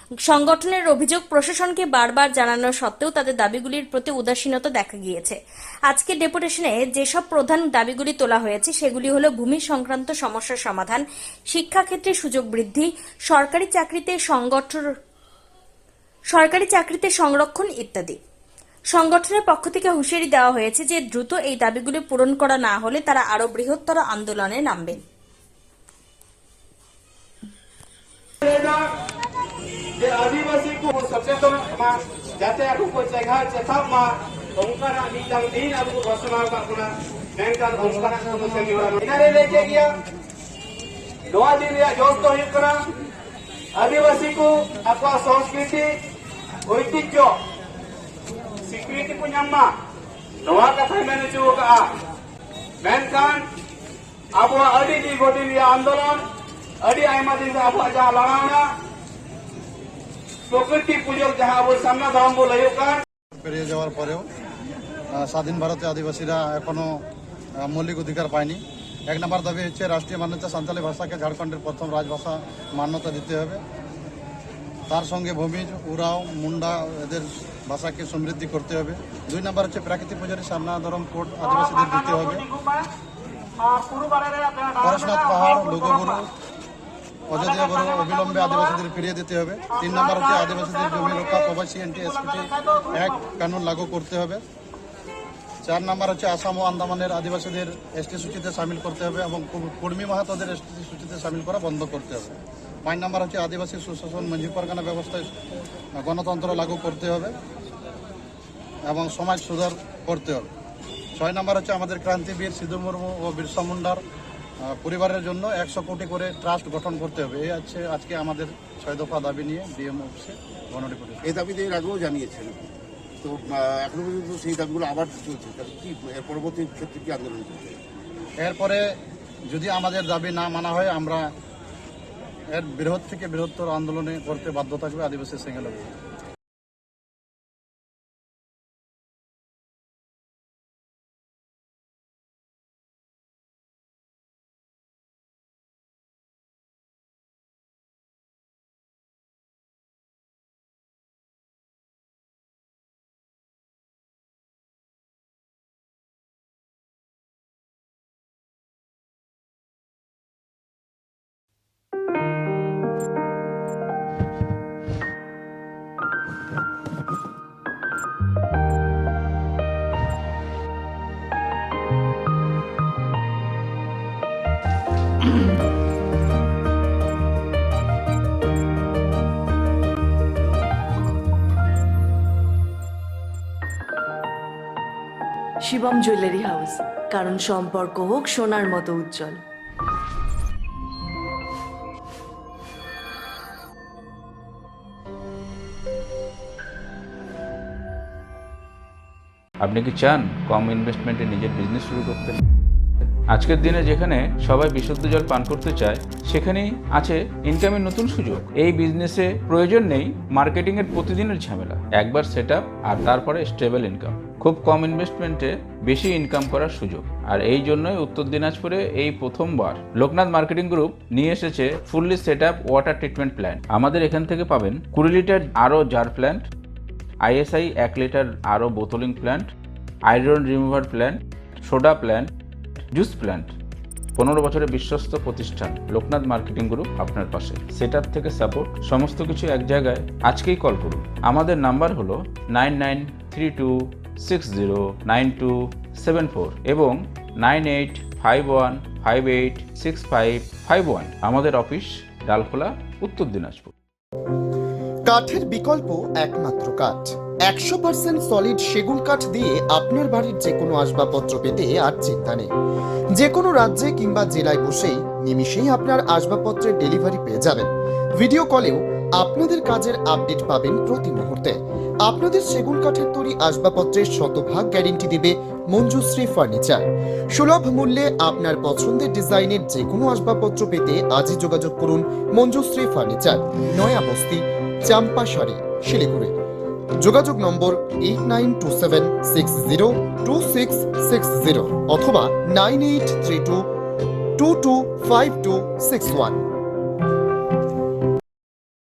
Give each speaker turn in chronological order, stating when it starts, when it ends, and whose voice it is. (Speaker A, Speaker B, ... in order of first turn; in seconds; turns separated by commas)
Speaker A: 0.3-14.8, Speaker A: 16.3-18.2, Speaker A: 18.9-25.0, Speaker B: 28.4-28.8, Speaker B: 30.0-40.0, Speaker B: 41.3-42.8, Speaker B: 43.7-45.9, Speaker B: 46.7-47.3, Speaker B: 48.6-49.7, Speaker B: 50.4-51.9, Speaker B: 52.8-53.5, Speaker B: 54.4-56.2, Speaker B: 56.8-58.7, Speaker B: 60.5-63.0, Speaker C: 63.4-64.2, Speaker C: 65.2-66.9, Speaker C: 67.6-73.6, Speaker C: 74.9-82.4, Speaker B: 81.5-82.9, Speaker B: 83.7-86.1, Speaker C: 84.8-86.3, Speaker C: 87.3-94.4, Speaker B: 87.3-88.7, Speaker B: 89.7-91.5, Speaker B: 92.2-93.0, Speaker C: 95.6-105.3, Speaker C: 106.0-107.3, Speaker C: 108.9-110.5, Speaker C: 111.2-114.0, Speaker C: 114.7-121.3, Speaker D: 121.2-122.7, Speaker D: 123.2-127.8, Speaker C: 128.4-128.8, Speaker C: 129.5-131.2, Speaker C: 132.5-135.9, Speaker E: 185.6-189.4, Speaker F: 199.6-202.4, Speaker F: 203.3-226.4, Speaker F: 227.2-229.5, Speaker F: 230.1-232.3, Speaker F: 232.9-233.5, Speaker F: 234.2-253.7, Speaker G: 255.1-262.5, Speaker G: 263.1-267.7, Speaker G: 268.2-286.3, Speaker G: 287.0-293.6, Speaker G: 294.4-296.4